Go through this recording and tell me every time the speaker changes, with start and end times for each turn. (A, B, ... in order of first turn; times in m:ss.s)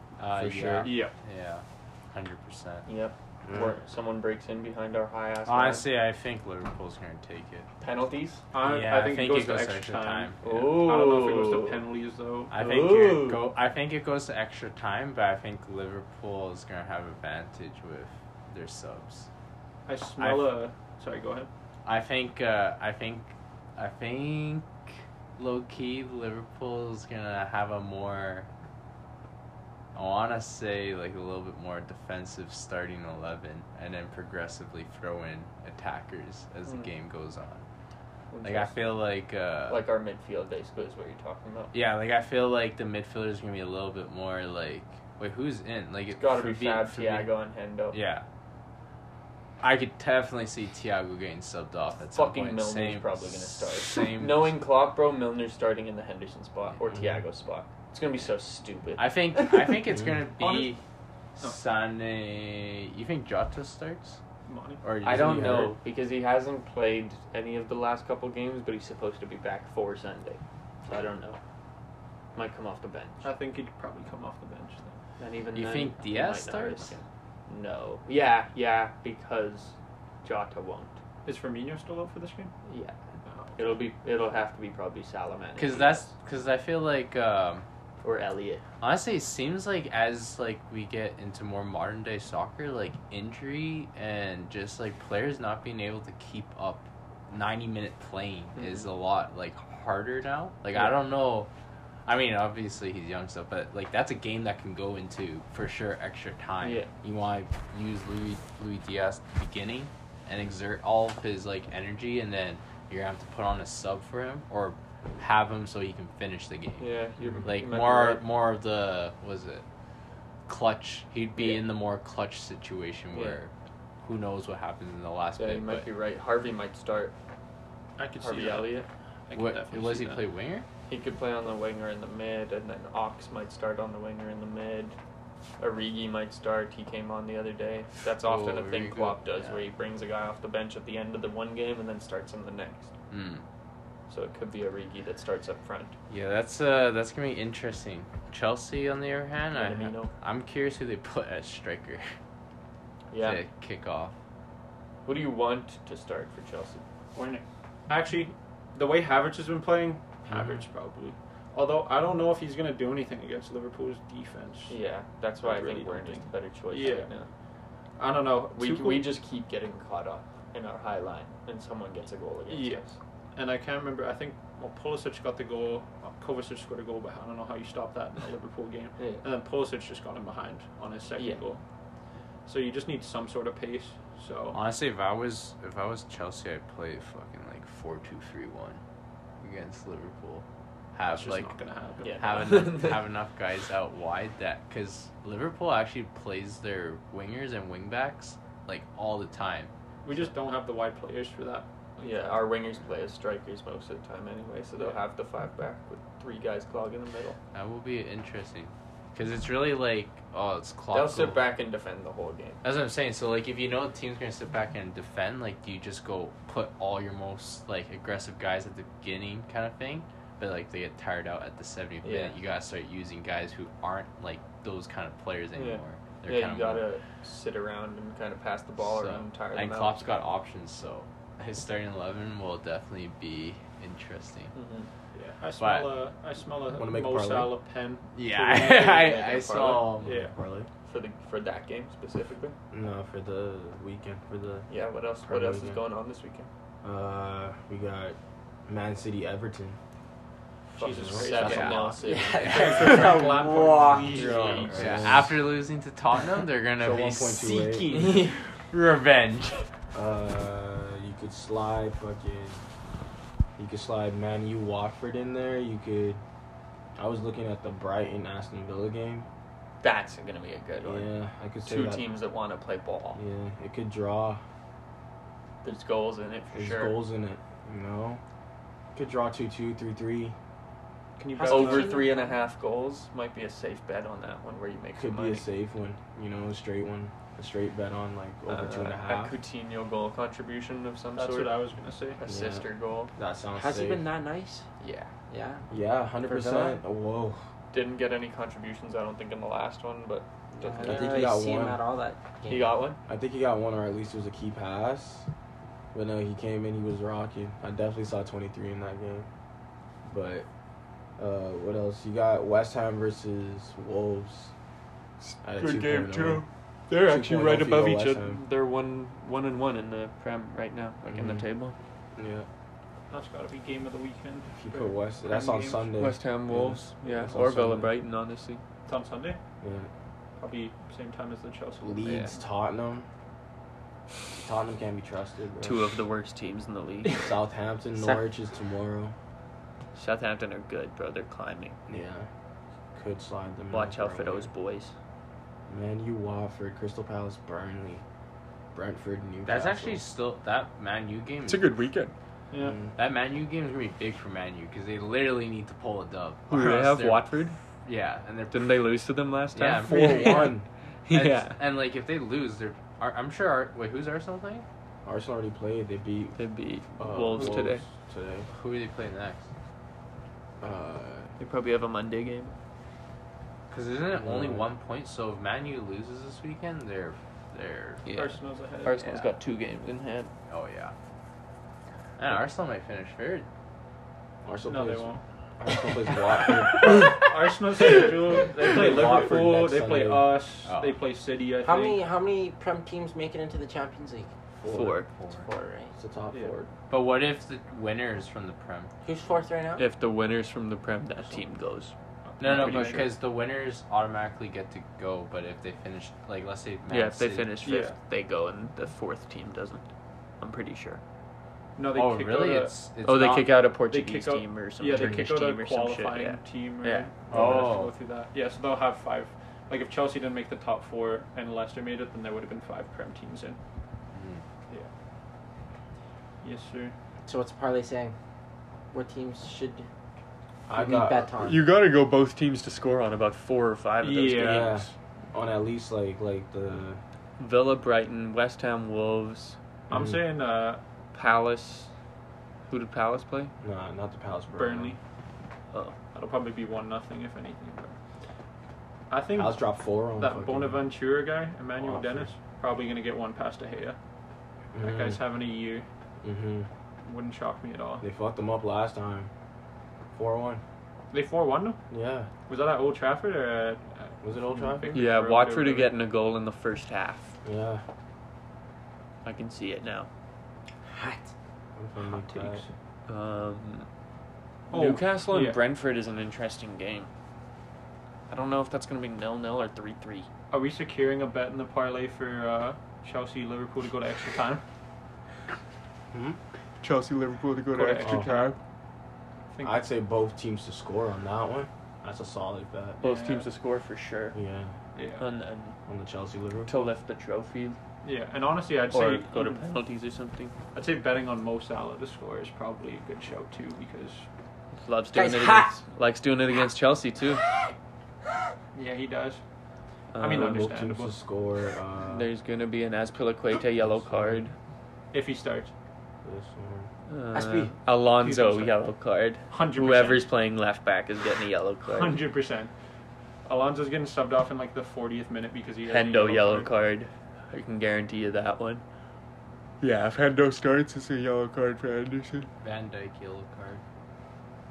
0:00.2-0:02.9 A
0:00.4-0:00.9 B
0:00.8-0:01.1 C
0:02.9-0:05.8 D
0:03.5-0:03.8 B
0:05.4-0:07.7 A
0:07.8-0:08.5 D
0:08.5-0:12.6 C
0:08.6-0:10.4 A
0:10.4-0:11.8 D
0:12.5-0:19.3 A
0:12.5-0:13.5 D
0:19.9-0:21.5 C
0:20.2-0:20.5 A
0:21.8-0:24.7 A
0:25.4-0:28.5 A
0:30.0-0:37.6 A
0:36.7-0:36.9 D
0:38.3-0:38.8 D
0:38.4-0:39.9 A
0:39.7-0:41.7 D
0:41.7-0:47.3 A
0:46.1-0:48.0 D
0:47.9-0:48.2 A
0:49.6-0:54.6 A
0:52.1-0:59.8 D
0:59.0-1:00.8 A
0:59.9-1:00.2 B
1:00.4-1:00.7 C
1:01.4-1:04.2 A
1:04.5-1:04.8 C
1:04.8-1:05.8 A
1:05.0-1:11.4 D
1:05.1-1:05.7 B
1:12.3-1:13.3 D
1:13.2-1:15.0 C
1:15.2-1:21.0 D
1:15.5-1:17.0 A
1:21.2-1:22.5 C
1:22.7-1:23.0 D
1:23.2-1:23.8 C
1:23.6-1:26.1 D
1:25.6-1:27.6 A
1:28.0-1:28.6 D
1:28.8-1:41.5 A
1:38.6-1:38.9 D
1:42.1-1:59.6 A
1:46.6-1:46.9 D
1:56.8-1:58.2 D
2:00.5-2:03.5 A
2:01.4-2:01.6 D
2:03.1-2:03.4 D
2:04.0-2:05.9 A
2:05.4-2:07.1 D
2:08.0-2:10.2 C
2:08.2-2:08.9 D
2:09.3-2:10.7 A
2:10.9-2:15.0 D
2:15.6-2:22.9 D
2:18.2-2:19.6 A
2:23.1-2:23.4 A
2:24.1-2:26.0 D
2:26.1-2:32.1 A
2:29.5-2:30.1 D
2:33.1-2:33.4 D
2:33.2-2:34.2 A
2:35.0-2:36.8 D
2:37.2-2:44.8 C
2:44.7-2:47.3 D
2:45.4-2:47.1 C
2:48.0-2:49.2 C
2:48.6-2:53.0 D
2:52.5-2:52.8 C
2:53.4-3:01.6 C
2:59.0-2:59.2 D
3:01.2-3:01.4 D
3:02.5-3:04.6 C
3:04.5-3:08.8 A
3:09.4-3:11.6 A
3:11.1-3:12.7 C
3:12.0-3:13.1 D
3:12.1-3:19.7 A
3:20.0-3:22.4 C
3:22.0-3:27.4 D
3:27.5-3:31.4 A
3:30.9-3:32.6 D
3:32.6-3:46.9 A
3:42.0-3:42.4 D
3:45.6-3:50.2 D
3:48.8-3:54.5 A
3:54.5-3:54.9 D
3:55.1-4:00.3 C
3:55.6-3:55.9 A
3:56.7-3:57.5 B
3:58.2-4:00.2 A
3:58.5-3:59.9 D
4:00.0-4:00.7 B
4:00.8-4:02.6 D
4:02.7-4:04.7 B
4:04.7-4:06.5 D
4:05.3-4:05.8 B
4:06.8-4:09.8 B
4:10.8-4:13.1 D
4:10.8-4:15.2 C
4:10.9-4:11.3 B
4:11.2-4:13.2 A
4:12.0-4:14.6 E
4:14.0-4:15.4 B
4:14.1-4:14.8 D
4:14.8-4:19.6 A
4:16.8-4:18.3 B
4:17.8-4:18.4 D
4:19.9-4:22.6 B
4:23.6-4:26.2 B
4:27.0-4:29.3 B
4:29.8-4:31.1 D
4:30.8-4:32.0 B
4:31.6-4:33.2 D
4:33.2-4:34.4 B
4:35.6-4:37.0 D
4:36.5-4:38.2 B
4:38.9-4:40.4 B
4:41.2-4:42.1 C
4:41.3-4:42.4 E
4:41.5-4:45.4 D
4:45.0-4:49.4 B
4:48.5-4:51.6 D
4:51.2-4:52.2 C
4:52.2-4:53.1 D
4:52.3-4:54.0 B
4:53.6-4:54.7 E
4:54.8-4:55.1 D
4:55.3-4:55.7 E
4:55.7-4:57.4 B
4:56.2-4:56.8 E
4:57.7-5:01.3 D
5:00.6-5:02.7 E
5:00.8-5:01.8 B
5:02.5-5:03.0 D
5:03.1-5:05.3 B
5:05.9-5:09.3 B
5:10.0-5:10.5 B
5:11.2-5:14.5 B
5:15.4-5:18.4 B
5:15.6-5:16.4 D
5:17.0-5:21.8 D
5:21.1-5:21.4 B
5:22.2-5:22.5 B
5:23.1-5:25.9 C
5:24.5-5:27.9 B
5:26.0-5:28.6 D
5:27.0-5:27.3 C
5:28.9-5:29.4 C
5:29.6-5:29.9 B
5:30.4-5:32.3 C
5:31.8-5:33.1 B
5:32.1-5:32.3 D
5:34.3-5:36.0 B
5:35.6-5:37.3 D
5:37.2-5:39.1 B
5:38.0-5:38.3 E
5:40.0-5:41.8 D
5:41.9-5:42.3 B
5:43.0-5:44.5 B
5:43.7-5:45.0 D
5:45.7-5:48.0 B
5:48.7-5:50.0 B
5:49.5-5:51.7 A
5:51.5-5:52.1 D
5:52.5-5:52.8 C
5:52.6-5:53.0 B
5:53.0-5:57.3 A
5:56.5-5:57.6 D
5:57.8-5:58.8 A
5:58.5-6:00.6 D
5:59.5-6:00.5 A
5:59.9-6:00.7 B
6:01.1-6:01.6 D
6:01.1-6:04.6 A
6:05.0-6:06.4 B
6:06.4-6:07.8 D
6:07.0-6:08.5 B
6:08.5-6:09.5 A
6:10.6-6:11.3 B
6:11.4-6:12.5 D
6:13.7-6:18.1 A
6:14.1-6:14.7 B
6:18.1-6:20.3 D
6:18.1-6:19.1 C
6:20.5-6:20.9 A
6:22.2-6:23.5 A
6:24.4-6:27.1 B
6:24.7-6:25.2 C
6:26.8-6:32.0 C
6:28.6-6:30.4 B
6:30.6-6:31.0 A
6:31.6-6:34.3 E
6:34.6-6:35.0 B
6:34.7-6:35.1 D
6:35.2-6:35.5 A
6:35.3-6:35.9 E
6:36.0-6:36.7 B
6:36.9-6:38.9 A
6:39.0-6:39.9 E
6:39.8-6:43.1 D
6:42.3-6:43.1 C
6:42.4-6:47.8 A
6:46.9-6:49.9 D
6:47.6-6:48.0 C
6:50.4-6:51.0 D
6:51.8-6:52.7 C
6:51.9-6:53.6 A
6:53.0-6:57.1 D
6:53.9-7:03.6 C
6:54.9-6:55.3 B
6:57.3-6:57.9 A
6:57.3-6:57.7 B
7:04.1-7:04.4 A
7:06.4-7:07.0 C
7:07.3-7:08.2 E
7:08.9-7:09.9 E
7:10.7-7:11.6 B
7:10.7-7:11.6 E
7:11.4-7:14.9 D
7:14.0-7:14.8 C
7:14.4-7:17.0 B
7:17.4-7:19.6 D
7:19.9-7:20.2 B
7:19.9-7:20.8 C
7:21.1-7:21.9 D
7:22.7-7:23.5 D
7:23.6-7:25.0 B
7:24.6-7:25.0 C
7:25.7-7:26.0 D
7:26.0-7:28.0 C
7:29.1-7:29.6 C
7:29.3-7:30.8 B
7:30.2-7:34.0 C
7:31.8-7:32.3 B
7:34.7-7:35.2 B
7:34.8-7:35.9 C
7:36.2-7:36.7 B
7:37.0-7:38.1 C
7:38.0-7:39.3 B
7:40.1-7:40.6 B
7:41.1-7:41.8 C
7:41.9-7:42.3 B
7:42.5-7:46.0 C
7:44.2-7:45.0 B
7:44.9-7:47.4 D
7:47.4-7:47.8 B
7:49.2-7:50.1 D
7:50.9-7:51.3 E
7:51.8-7:52.6 B
7:52.0-7:52.7 C
7:53.1-7:53.9 D
7:54.7-7:55.6 C
7:54.7-7:57.1 D
7:58.3-8:00.3 D
8:00.5-8:04.6 C
8:06.1-8:06.4 B
8:06.8-8:08.6 D
8:07.7-8:08.6 C
8:08.0-8:08.3 B
8:09.5-8:09.8 C
8:09.6-8:13.0 B
8:13.0-8:13.5 C
8:13.0-8:14.4 D
8:14.3-8:14.7 B
8:15.0-8:15.2 C
8:15.2-8:15.8 D
8:15.9-8:16.7 B
8:16.7-8:17.8 D
8:18.0-8:19.7 C
8:18.9-8:20.5 D
8:20.7-8:24.3 C
8:24.7-8:27.5 D
8:25.1-8:25.8 E
8:28.7-8:29.4 C
8:30.1-8:30.7 D
8:30.2-8:31.2 C
8:30.3-8:32.3 B
8:32.1-8:34.6 D
8:33.8-8:34.4 B
8:35.1-8:35.7 C
8:36.2-8:36.9 B
8:37.1-8:42.2 D
8:37.4-8:38.8 C
8:39.5-8:40.2 C
8:41.9-8:42.7 C
8:43.5-8:46.7 C
8:45.9-8:48.8 D
8:49.8-8:52.5 D
8:52.6-8:53.8 A